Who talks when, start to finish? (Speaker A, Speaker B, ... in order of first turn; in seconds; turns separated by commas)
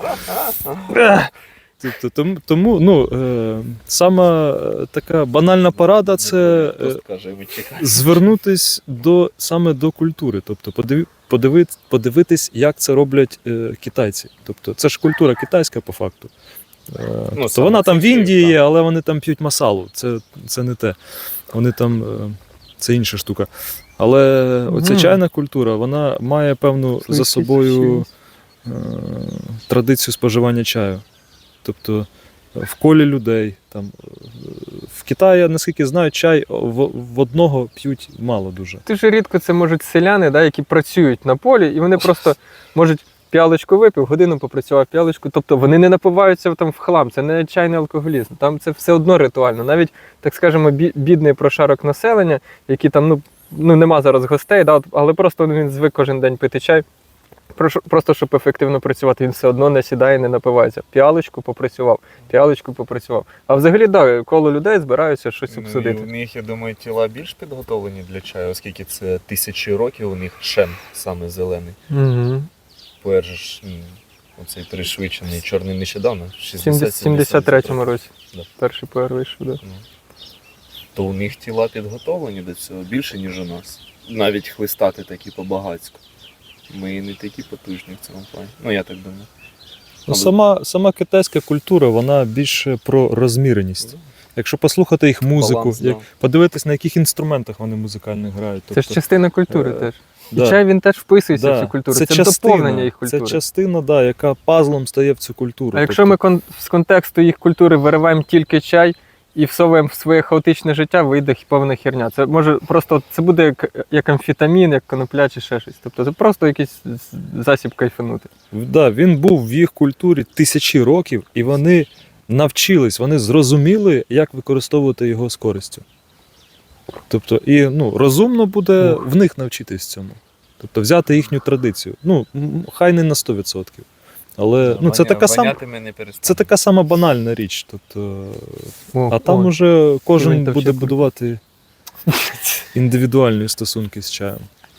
Speaker A: 0.2-0.8, Speaker B: 0.9-7.0, Speaker A: 5.8-8.1, Speaker B: 7.8-16.3, Speaker B: 16.9-21.0, Speaker A: 17.3-18.6, Speaker B: 21.5-28.1, Speaker C: 24.7-25.2, Speaker C: 27.0-28.1, Speaker B: 28.6-31.0, Speaker B: 31.6-38.8, Speaker C: 38.9-56.8, Speaker C: 57.5-66.1, Speaker A: 65.5-71.8, Speaker C: 71.9-72.5, Speaker A: 73.0-77.8, Speaker C: 76.6-79.6, Speaker A: 80.9-86.0, Speaker A: 86.7-89.3, Speaker B: 90.1-100.6, Speaker A: 95.3-96.0, Speaker C: 98.7-103.4, Speaker B: 101.3-106.2, Speaker C: 105.7-118.3, Speaker B: 118.5-125.8, Speaker B: 127.1-133.9, Speaker B: 134.4-135.6, Speaker A: 134.6-136.5, Speaker B: 136.2-141.4, Speaker C: 138.9-139.5, Speaker C: 140.1-141.0, Speaker B: 142.7-144.4